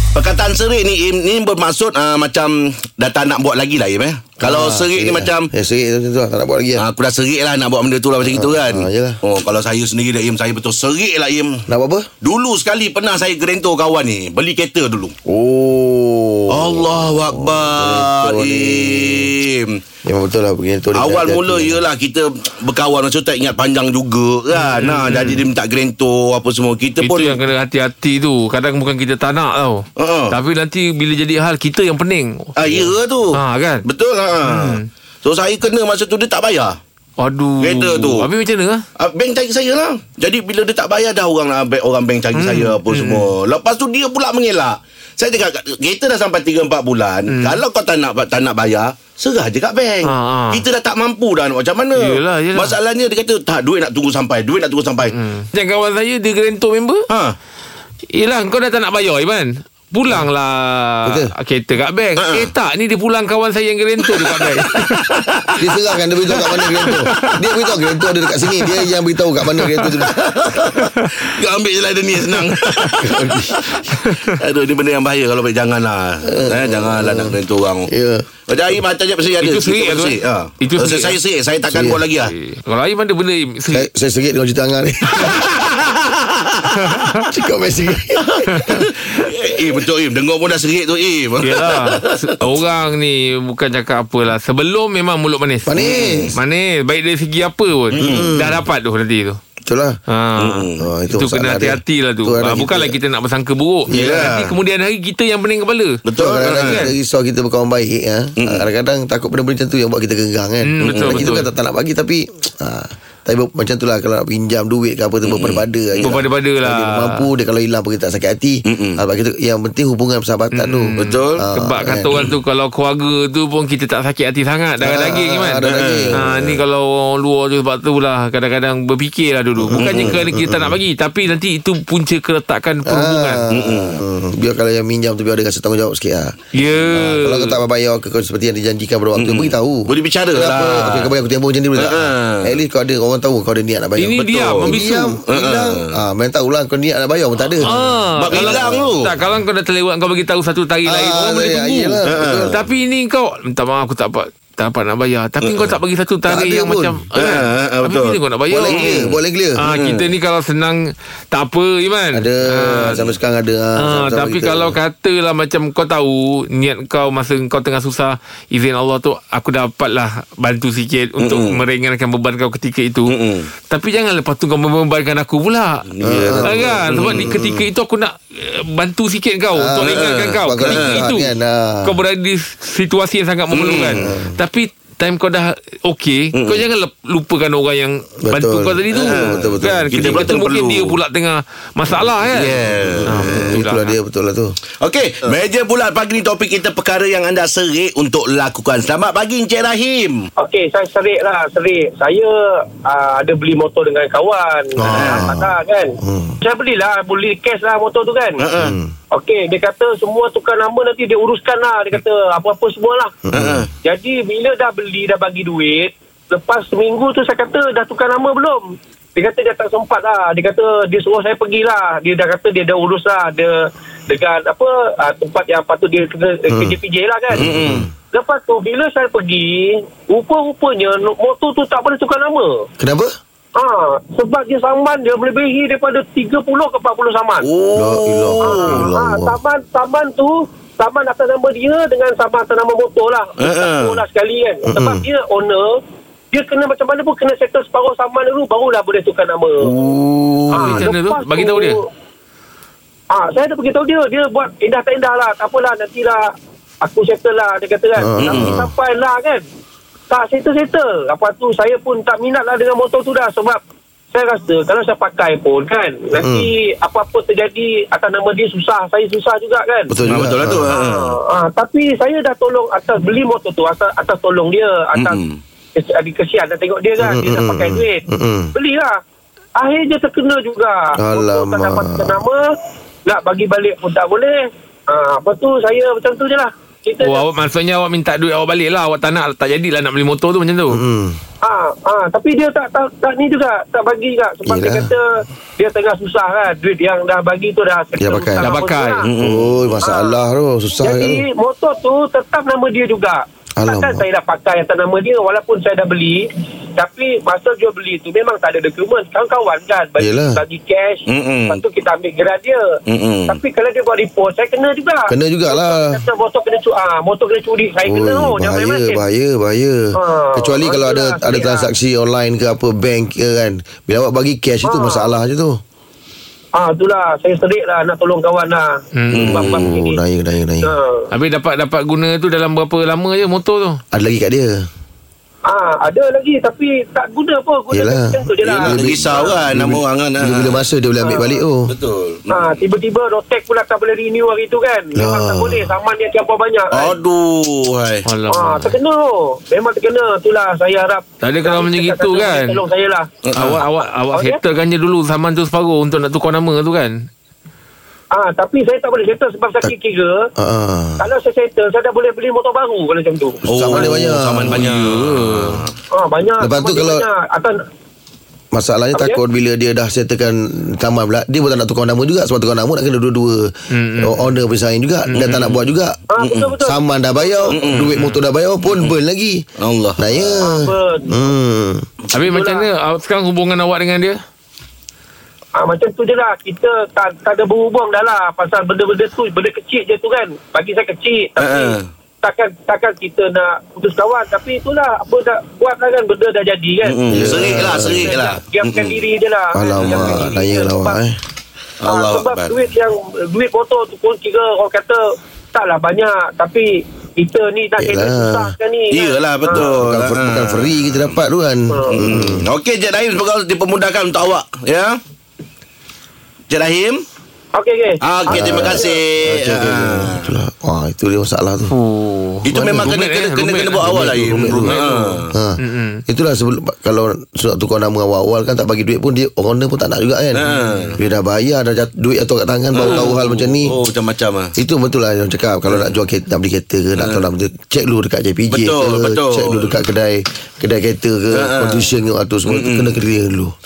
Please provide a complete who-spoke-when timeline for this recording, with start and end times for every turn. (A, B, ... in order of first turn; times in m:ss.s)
0:00.2-0:05.5 A
0:04.4-0:06.8 B
0:06.8-0:11.6 A
0:08.3-0:09.2 B
0:11.7-0:12.1 B
0:12.2-0:15.1 A
0:15.3-0:19.3 B
0:16.5-0:19.8 A
0:20.0-0:21.8 B
0:21.0-0:27.4 A
0:24.6-0:25.4 C
0:27.0-0:33.8 C
0:30.0-0:30.3 A
0:32.6-0:36.8 A
0:34.4-0:34.9 C
0:37.2-0:38.8 C
0:37.6-0:38.3 A
0:39.0-0:55.1 A
0:42.4-0:43.3 C
0:47.3-0:47.6 C
0:50.0-0:50.6 C
0:52.0-0:52.7 C
0:55.1-0:57.1 C
0:57.1-0:57.4 A
0:58.1-1:05.0 C
1:01.0-1:01.3 B
1:02.2-1:02.5 A
1:04.2-1:05.6 A
1:05.6-1:10.5 B
1:06.5-1:06.9 A
1:06.8-1:07.3 C
1:10.0-1:17.9 A
1:10.8-1:11.1 C
1:12.8-1:13.1 C
1:12.9-1:13.6 B
1:14.0-1:14.3 C
1:16.3-1:17.4 B
1:17.9-1:18.3 B
1:18.5-1:22.3 A
1:19.4-1:21.2 C
1:21.7-1:22.0 B
1:22.3-1:23.9 C
1:23.7-1:25.6 B
1:25.3-1:26.6 A
1:26.7-1:27.3 C
1:27.2-1:28.9 B
1:28.2-1:32.1 A
1:28.5-1:28.8 C
1:31.4-1:35.8 C
1:35.7-1:36.4 B
1:35.8-1:36.4 A
1:36.4-1:39.4 C
1:37.9-1:38.6 B
1:38.0-1:38.3 A
1:39.6-1:40.0 B
1:40.1-1:46.9 C
1:40.4-1:40.9 A
1:40.8-1:43.0 B
1:43.9-1:44.3 B
1:43.9-1:44.5 A
1:46.1-1:46.8 A
1:46.2-2:02.3 B
1:48.4-1:48.7 A
1:50.7-1:51.5 C
1:50.8-1:51.3 A
1:55.3-1:56.2 A
1:56.0-1:57.3 C
1:58.7-1:59.0 A
2:00.6-2:05.6 C
2:01.0-2:01.4 A
2:04.8-2:06.2 B
2:05.6-2:06.5 A
2:06.1-2:13.4 C
2:09.6-2:10.8 B
2:09.8-2:10.2 A
2:12.8-2:27.7 B
2:13.5-2:14.0 A
2:16.5-2:17.6 C
2:19.2-2:21.2 A
2:21.8-2:22.6 A
2:24.0-2:25.2 C
2:24.2-2:24.8 A
2:25.3-2:26.0 A
2:27.6-2:29.1 A
2:27.6-2:38.9 C
2:28.3-2:28.9 B
2:30.8-2:32.6 B
2:32.0-2:32.6 A
2:35.4-2:35.7 A
2:36.3-2:37.0 B
2:37.1-2:40.1 A
2:38.5-2:39.6 B
2:39.6-2:43.0 C
2:42.1-2:44.8 B
2:43.8-2:53.1 C
2:51.2-2:51.6 A
2:53.1-2:53.5 A
2:53.7-2:55.8 C
2:55.9-2:57.4 A
2:56.0-2:57.6 B
2:56.4-3:01.3 C
2:59.5-3:01.9 B
2:59.8-3:01.0 A
3:01.8-3:12.5 C
3:03.5-3:04.1 A
3:04.0-3:04.4 B
3:06.3-3:06.6 A
3:08.2-3:10.3 B
3:09.0-3:11.0 A
3:12.3-3:13.5 A
3:12.9-3:14.5 B
3:13.1-3:13.9 C
3:14.8-3:20.2 A
3:20.4-3:28.4 D
3:24.8-3:26.3 B
3:24.9-3:25.3 A
3:28.4-3:28.8 A
3:28.6-3:28.9 B
3:29.1-3:33.1 D
3:33.3-3:33.6 B
3:33.3-3:33.7 A
3:33.8-3:38.6 D
3:39.2-3:43.6 D
3:44.1-3:47.5 D
3:46.5-3:46.8 B
3:47.3-3:47.9 B
3:47.4-3:47.9 A
3:48.1-3:52.5 D
3:52.8-3:53.1 B
3:53.5-3:57.5 D
3:57.4-3:58.9 A
3:57.8-3:59.4 B
3:58.4-4:05.8 D
4:03.4-4:04.0 A
4:04.7-4:05.0 B
4:06.3-4:09.7 D
4:09.8-4:10.4 B
4:09.9-4:10.7 A
4:10.5-4:11.8 D
4:10.6-4:11.8 C
4:13.1-4:16.3 D
4:16.8-4:19.4 D
4:18.0-4:18.7 B
4:18.2-4:18.6 A
4:20.1-4:23.6 D
4:24.1-4:29.9 D
4:26.2-4:26.5 B
4:29.9-4:30.7 B
4:30.0-4:31.2 A
4:30.7-4:35.2 D
4:34.9-4:35.4 A
4:35.8-4:38.0 D
4:37.0-4:38.5 B
4:38.5-4:39.0 D
4:39.6-4:42.6 D
4:41.0-4:42.2 B
4:43.1-4:47.2 D
4:47.0-4:50.8 C
4:50.7-4:51.2 B
4:51.4-4:59.1 D
4:54.5-4:54.9 B
4:58.0-4:58.4 B
4:58.4-4:59.0 C
4:59.0-4:59.6 A
4:59.2-5:01.2 B
4:59.8-5:00.2 D
5:00.8-5:12.6 D
5:03.6-5:04.1 B
5:10.0-5:10.4 B
5:11.1-5:11.6 A
5:12.9-5:13.4 A
5:13.3-5:19.0 D
5:15.1-5:16.0 B
5:17.9-5:25.6 B
5:20.0-5:21.7 D
5:24.6-5:25.1 D
5:26.6-5:28.7 D
5:28.9-5:29.3 C
5:29.1-5:29.7 A
5:29.3-5:30.0 D
5:29.4-5:30.7 B
5:30.7-5:31.0 D
5:31.1-5:33.8 C
5:33.9-5:34.7 B
5:35.5-5:39.3 D
5:37.7-5:41.7 B
5:38.4-5:40.6 A
5:41.0-5:41.4 D
5:41.7-5:42.6 A
5:42.3-5:46.9 D
5:44.9-5:45.8 B
5:46.7-5:48.1 A
5:48.1-5:48.8 C
5:48.3-5:53.1 D
5:51.2-5:52.6 C
5:53.2-5:53.6 A
5:53.4-5:57.1 C
5:54.1-5:54.4 D
5:58.1-6:00.3 D
6:00.4-6:01.1 B
6:01.0-6:03.9 D
6:03.4-6:04.6 B
6:03.5-6:05.7 A
6:04.5-6:05.6 C
6:05.9-6:07.6 D
6:06.4-6:07.1 B
6:08.5-6:16.0 B
6:13.7-6:14.3 C
6:15.1-6:15.5 C
6:16.1-6:16.8 D
6:16.2-6:16.5 A
6:16.6-6:19.4 B
6:17.5-6:17.9 A
6:18.7-6:18.9 A
6:19.6-6:20.4 A
6:20.0-6:21.9 B
6:20.4-6:21.1 D
6:22.1-6:24.2 C
6:22.2-6:22.7 D
6:25.6-6:41.0 D
6:31.4-6:31.9 A
6:36.8-6:39.0 A
6:37.1-6:38.2 B
6:39.5-6:41.2 B
6:39.8-6:40.3 A
6:41.8-6:42.6 A
6:41.8-6:45.0 D
6:45.5-6:49.7 D
6:47.8-6:48.5 B
6:48.9-6:51.1 A
6:49.5-6:52.5 B
6:51.7-6:52.0 D
6:51.9-6:55.0 A
6:56.5-6:57.0 A
6:57.6-6:59.0 D
6:58.0-7:00.3 A
6:58.3-7:01.7 B
7:01.7-7:06.0 C
7:02.4-7:05.3 A
7:02.5-7:02.9 B
7:03.8-7:04.8 B
7:05.3-7:10.5 B
7:10.4-7:11.0 A
7:10.5-7:10.9 C
7:11.0-7:13.7 B
7:12.8-7:14.5 A
7:12.9-7:13.2 C
7:14.6-7:23.5 B
7:18.5-7:19.7 A
7:21.4-7:21.9 A
7:22.5-7:23.0 A